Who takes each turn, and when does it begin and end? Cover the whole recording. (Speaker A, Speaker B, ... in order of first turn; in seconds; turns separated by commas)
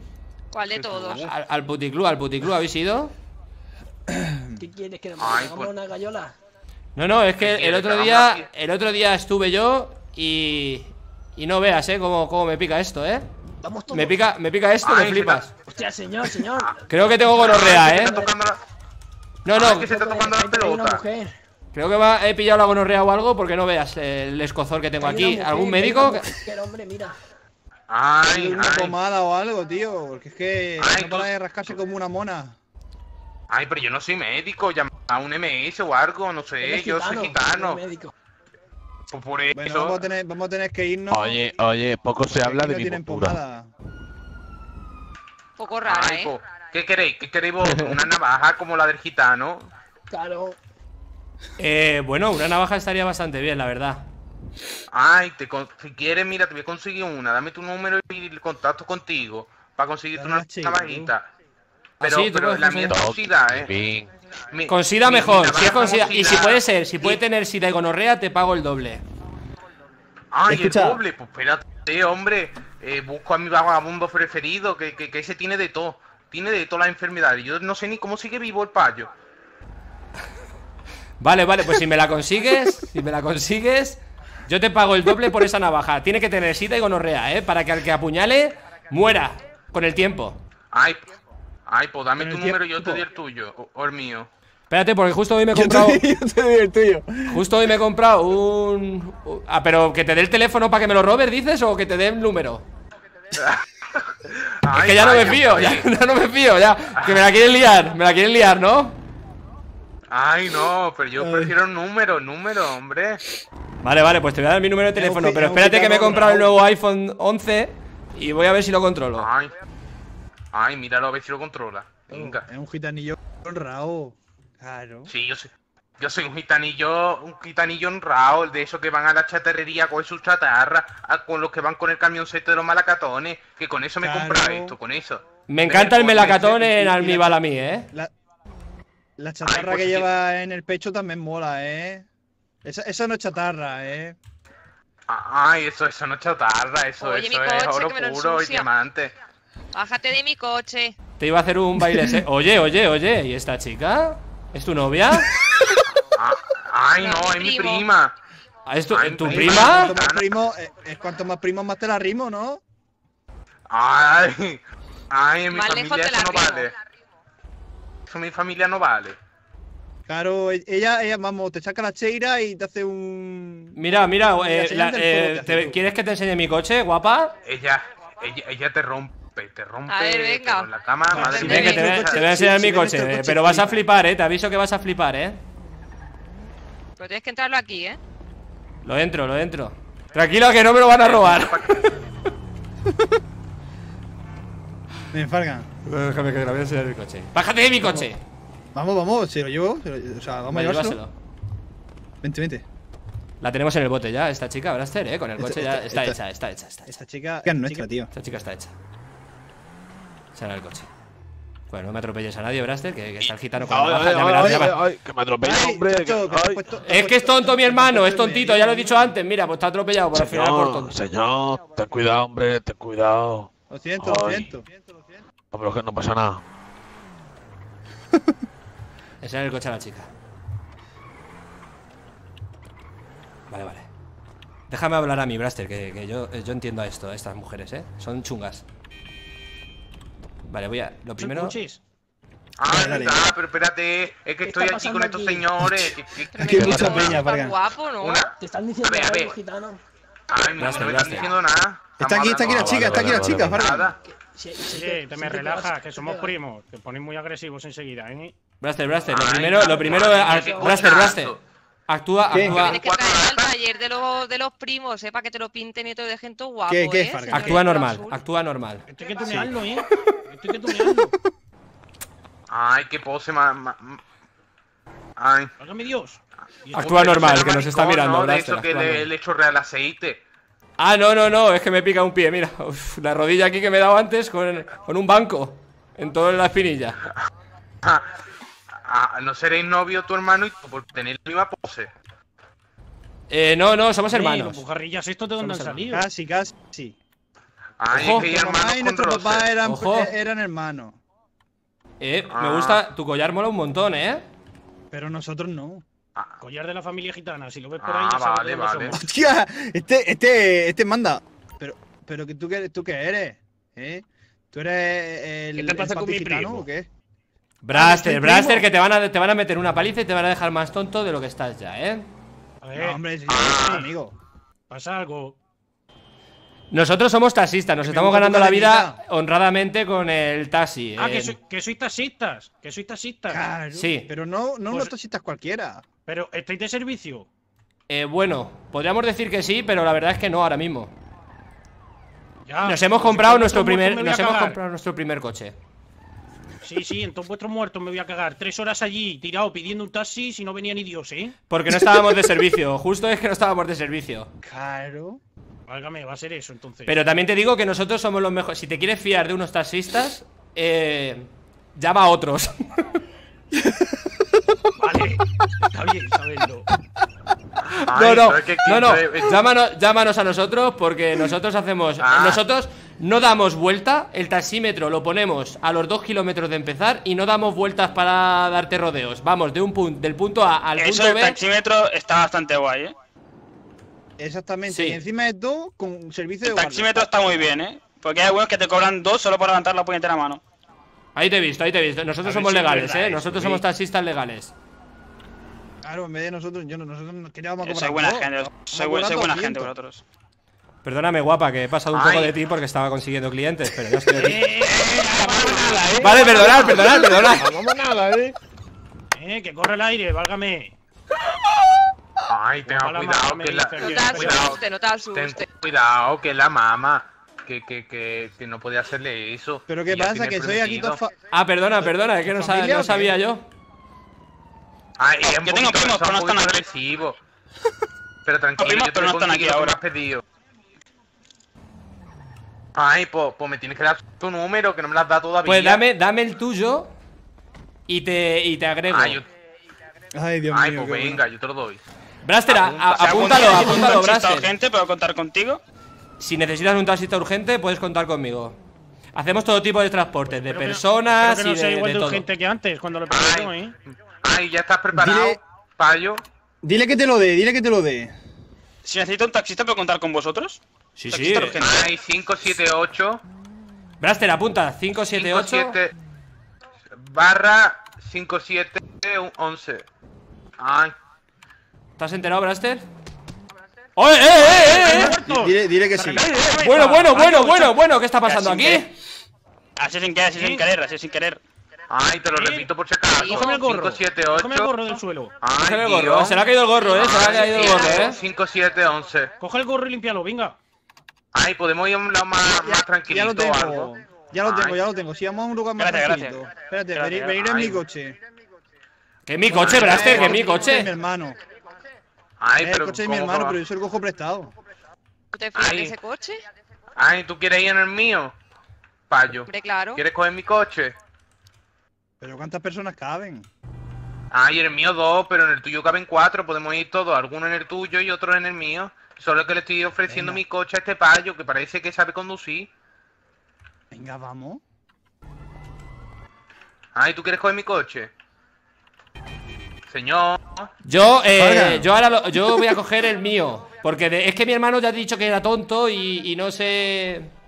Speaker A: 0.5-1.3, Speaker B: 0.8-1.1, Speaker C: 1.0-3.1, Speaker D: 4.1-4.5, Speaker E: 4.6-6.3, Speaker F: 5.2-5.8, Speaker C: 6.9-13.3, Speaker F: 7.4-8.5, Speaker E: 13.6-14.2, Speaker C: 13.9-15.5, Speaker F: 14.8-15.5, Speaker E: 15.7-18.3, Speaker C: 16.9-18.2, Speaker F: 17.3-18.6, Speaker C: 19.4-19.9, Speaker F: 19.5-21.0, Speaker E: 19.6-21.3, Speaker C: 21.7-26.3, Speaker E: 25.0-27.1, Speaker F: 27.9-28.9, Speaker D: 28.3-32.6, Speaker F: 30.8-31.7, Speaker F: 33.5-37.8, Speaker E: 36.6-38.1, Speaker F: 39.1-40.0, Speaker D: 39.5-41.4, Speaker B: 41.1-43.4, Speaker D: 42.3-43.7, Speaker A: 45.6-46.3, Speaker F: 45.8-49.7, Speaker B: 47.6-48.0, Speaker E: 50.1-50.6, Speaker C: 51.6-54.1, Speaker F: 54.9-61.3, Speaker D: 60.1-61.1, Speaker F: 62.0-63.7, Speaker C: 62.0-62.9, Speaker B: 62.9-64.1, Speaker F: 64.5-67.2, Speaker C: 64.7-69.0, Speaker F: 70.3-79.1, Speaker D: 70.5-71.0, Speaker C: 81.2-90.4, Speaker F: 90.7-91.1, Speaker F: 91.7-94.3, Speaker D: 92.2-93.0, Speaker C: 94.7-96.0, Speaker D: 95.5-97.4, Speaker C: 97.3-102.6, Speaker F: 103.3-104.1, Speaker F: 104.6-105.9, Speaker C: 104.7-109.0, Speaker F: 107.0-107.2, Speaker F: 110.1-113.2, Speaker D: 111.2-111.5, Speaker C: 113.8-119.3, Speaker D: 114.9-116.6, Speaker F: 119.2-119.5, Speaker F: 120.5-122.5, Speaker D: 122.1-125.1, Speaker F: 125.1-136.4, Speaker D: 134.0-134.8, Speaker C: 135.5-137.9, Speaker D: 136.0-138.1, Speaker D: 139.2-142.1, Speaker F: 139.4-140.1, Speaker D: 142.6-144.2, Speaker F: 145.1-149.1, Speaker A: 147.0-148.7, Speaker A: 149.7-150.9, Speaker C: 151.2-155.3, Speaker D: 155.4-155.8, Speaker F: 156.1-158.1, Speaker A: 157.0-157.9, Speaker C: 158.7-159.9, Speaker F: 158.9-160.3, Speaker D: 159.2-162.6, Speaker F: 163.7-166.7, Speaker A: 165.5-166.7, Speaker F: 168.1-169.2, Speaker D: 170.1-173.8, Speaker C: 173.8-177.3, Speaker D: 174.3-175.8, Speaker F: 177.4-182.2, Speaker A: 179.9-181.8, Speaker D: 181.1-183.8, Speaker C: 181.3-185.4, Speaker A: 187.0-188.0, Speaker C: 188.8-191.6, Speaker F: 190.9-191.9, Speaker D: 195.1-195.7, Speaker C: 195.8-198.2, Speaker D: 198.7-201.0, Speaker C: 200.5-201.1, Speaker D: 202.2-202.6, Speaker C: 203.4-207.0, Speaker D: 205.4-206.2, Speaker D: 206.8-208.1, Speaker C: 208.1-208.7, Speaker C: 210.3-210.9, Speaker C: 211.7-214.8, Speaker B: 213.6-216.6, Speaker D: 214.4-214.7, Speaker D: 215.4-219.1, Speaker C: 216.8-220.9, Speaker B: 220.1-224.5, Speaker D: 223.7-224.9, Speaker B: 225.5-226.4, Speaker C: 229.2-230.1, Speaker C: 233.5-233.9, Speaker C: 234.7-238.6, Speaker C: 240.5-241.6, Speaker G: 241.2-241.8, Speaker F: 242.6-247.2, Speaker D: 242.7-243.2, Speaker E: 244.4-245.5, Speaker D: 245.7-247.6, Speaker A: 246.3-248.2, Speaker B: 246.5-246.9, Speaker F: 248.0-249.4, Speaker E: 248.4-249.8, Speaker F: 250.3-254.0, Speaker C: 250.6-251.3, Speaker D: 252.0-253.9, Speaker B: 252.5-253.6, Speaker C: 252.9-253.4, Speaker E: 254.1-256.4, Speaker G: 254.8-258.3, Speaker C: 258.6-261.4, Speaker F: 259.1-261.4, Speaker E: 259.5-260.9, Speaker C: 261.9-262.8, Speaker D: 262.3-262.7, Speaker F: 262.3-263.6, Speaker A: 262.5-268.2, Speaker D: 266.7-267.8, Speaker C: 267.3-268.9, Speaker G: 268.9-271.1, Speaker D: 269.2-269.5, Speaker F: 272.5-274.0, Speaker F: 275.2-275.5, Speaker G: 275.6-277.4, Speaker C: 276.7-279.1, Speaker F: 276.8-280.2, Speaker C: 280.8-287.0, Speaker F: 288.8-291.9, Speaker C: 293.3-294.6, Speaker G: 294.1-296.1, Speaker C: 295.4-295.8, Speaker D: 295.9-297.0, Speaker F: 297.8-299.6, Speaker D: 297.9-301.0, Speaker C: 297.9-298.3, Speaker C: 299.6-300.1, Speaker C: 302.0-304.2, Speaker F: 302.3-302.8, Speaker D: 304.9-305.8, Speaker G: 306.4-309.0, Speaker F: 307.8-309.0, Speaker D: 308.9-316.9, Speaker H: 315.7-316.5, Speaker C: 317.6-322.1, Speaker D: 317.7-318.7, Speaker G: 322.6-323.9, Speaker D: 322.7-324.1, Speaker F: 323.3-323.8, Speaker G: 324.7-325.4, Speaker C: 326.7-331.4, Speaker D: 327.8-329.0, Speaker G: 331.0-333.4, Speaker D: 333.3-335.8, Speaker C: 333.7-334.1, Speaker G: 336.1-337.3, Speaker C: 337.9-340.9, Speaker G: 342.4-344.6, Speaker C: 342.6-345.6, Speaker G: 346.6-351.4, Speaker C: 351.5-354.3, Speaker D: 354.4-355.2, Speaker G: 355.7-357.0, Speaker C: 356.9-363.0, Speaker D: 363.6-363.9, Speaker G: 364.8-366.7, Speaker F: 367.9-369.3, Speaker C: 367.9-381.4, Speaker F: 372.0-372.4, Speaker H: 380.8-382.9, Speaker D: 384.2-387.1, Speaker C: 384.7-385.0, Speaker H: 386.4-390.4, Speaker C: 391.1-394.5, Speaker H: 392.3-393.6, Speaker D: 395.8-399.7, Speaker H: 397.6-400.0, Speaker C: 400.8-404.4, Speaker F: 401.9-402.4, Speaker G: 404.1-406.7, Speaker F: 404.5-406.6, Speaker C: 406.0-407.5, Speaker D: 406.8-407.2, Speaker G: 409.1-410.7, Speaker F: 412.3-414.6, Speaker G: 412.6-414.6, Speaker A: 413.8-415.4, Speaker F: 415.1-421.0, Speaker D: 419.7-421.1, Speaker C: 421.3-423.5, Speaker D: 421.8-423.1, Speaker F: 425.0-427.2, Speaker H: 425.3-426.6, Speaker F: 428.2-430.2, Speaker H: 428.6-429.8, Speaker F: 432.7-435.8, Speaker C: 435.4-436.9, Speaker C: 437.9-439.2, Speaker F: 438.9-439.2, Speaker D: 440.1-441.2, Speaker F: 440.5-441.8, Speaker C: 442.2-444.5, Speaker H: 442.5-445.6, Speaker C: 446.2-448.6, Speaker C: 449.1-452.2, Speaker G: 450.3-453.7, Speaker F: 453.1-453.5, Speaker F: 454.2-456.2, Speaker D: 454.9-455.4, Speaker D: 456.6-458.1, Speaker H: 458.8-461.9, Speaker C: 461.0-461.6, Speaker F: 461.6-463.2, Speaker C: 464.0-465.8, Speaker F: 465.1-465.9, Speaker F: 466.9-469.9, Speaker F: 470.6-470.9, Speaker C: 472.0-472.9, Speaker C: 473.9-475.1, Speaker G: 474.4-477.8, Speaker D: 475.2-476.3, Speaker C: 476.6-478.9, Speaker F: 478.3-478.8, Speaker H: 479.8-481.4, Speaker G: 480.3-480.6, Speaker F: 481.9-484.9, Speaker G: 482.3-485.3, Speaker A: 483.2-483.6, Speaker F: 485.4-489.3, Speaker C: 485.6-488.1, Speaker A: 486.8-488.1, Speaker G: 489.4-490.6, Speaker F: 491.3-493.9, Speaker D: 492.5-498.2, Speaker F: 494.4-494.8, Speaker H: 495.8-497.3, Speaker F: 497.3-497.8, Speaker C: 499.3-500.9, Speaker D: 499.5-501.4, Speaker F: 499.5-500.6, Speaker F: 502.4-503.6, Speaker D: 502.6-504.5, Speaker A: 505.3-506.4, Speaker F: 505.6-505.9, Speaker F: 507.0-508.3, Speaker F: 509.1-510.9, Speaker A: 509.5-510.0, Speaker D: 512.2-513.5, Speaker F: 514.3-522.7, Speaker D: 520.1-520.4, Speaker D: 523.9-524.6, Speaker F: 526.9-528.1, Speaker F: 529.9-530.7, Speaker C: 530.8-537.3, Speaker D: 531.3-532.7